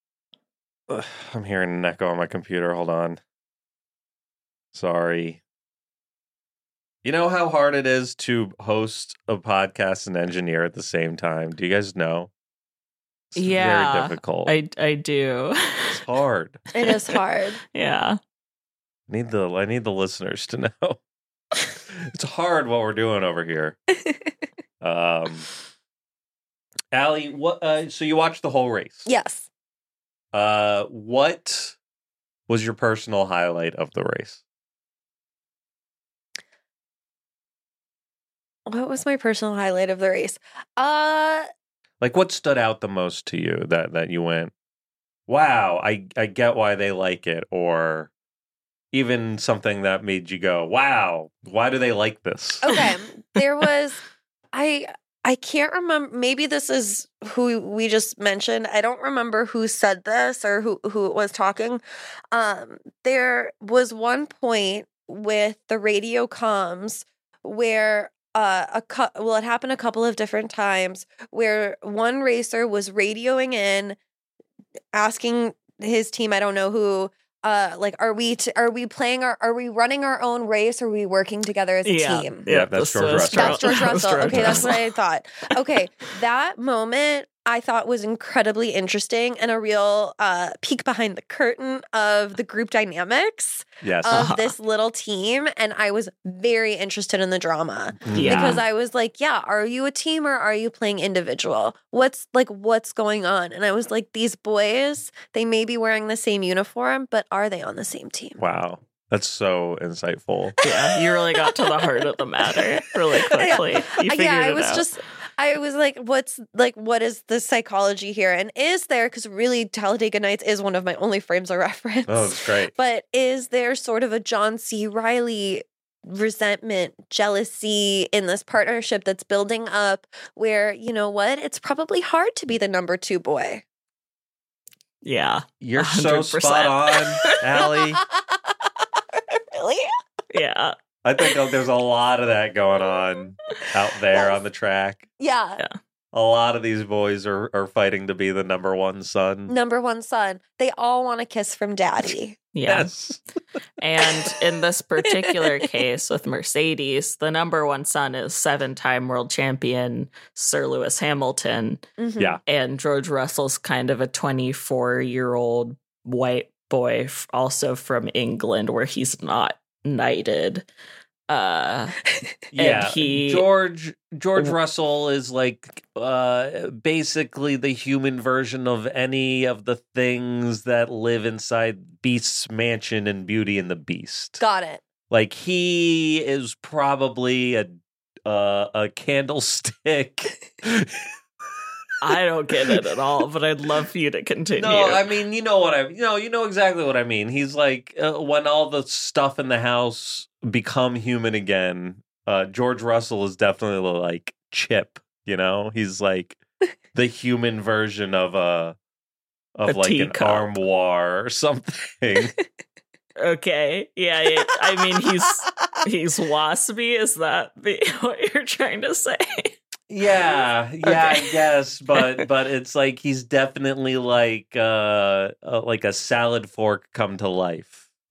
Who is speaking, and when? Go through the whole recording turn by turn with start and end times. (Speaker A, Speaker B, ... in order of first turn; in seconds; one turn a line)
Speaker A: 0.9-3.2
Speaker A: 4.7-5.4
Speaker A: 7.0-12.3
Speaker A: 13.3-14.5
Speaker B: 13.3-16.0
Speaker A: 15.9-16.6
Speaker C: 16.7-17.6
Speaker B: 17.7-18.2
Speaker A: 19.1-21.0
Speaker A: 21.9-23.8
Speaker A: 24.8-25.5
Speaker A: 26.9-29.1
Speaker C: 29.1-29.5
Speaker A: 30.3-31.8
Speaker A: 32.5-34.4
Speaker C: 38.7-41.5
Speaker A: 42.0-44.5
Speaker A: 45.3-48.1
Speaker A: 48.9-52.7
Speaker C: 52.6-54.0
Speaker C: 54.5-74.0
Speaker C: 74.9-82.4
Speaker B: 81.8-84.9
Speaker A: 82.5-84.7
Speaker C: 83.3-108.4
Speaker A: 93.8-94.3
Speaker B: 94.1-94.5
Speaker A: 98.0-98.6
Speaker B: 98.1-98.6
Speaker A: 108.4-110.5
Speaker B: 110.6-114.8
Speaker C: 113.4-133.6
Speaker A: 122.1-122.7
Speaker B: 135.0-137.3
Speaker A: 135.6-138.0
Speaker C: 138.2-138.5
Speaker C: 139.1-139.9
Speaker B: 140.3-140.7
Speaker A: 141.0-145.1
Speaker C: 145.2-145.6
Speaker A: 146.1-149.5
Speaker C: 149.5-152.4
Speaker B: 152.5-152.9
Speaker A: 152.7-153.2
Speaker B: 153.8-161.8
Speaker C: 162.0-162.4
Speaker B: 162.5-170.7
Speaker B: 171.3-172.0
Speaker A: 172.5-184.4
Speaker B: 172.6-173.4
Speaker C: 184.4-184.8
Speaker A: 185.1-187.7
Speaker A: 188.2-191.1
Speaker B: 192.0-195.0
Speaker A: 194.6-206.4
Speaker A: 206.9-208.8
Speaker A: 209.6-212.3
Speaker B: 209.7-210.5
Speaker B: 213.2-219.5
Speaker A: 219.9-227.8
Speaker B: 220.9-221.2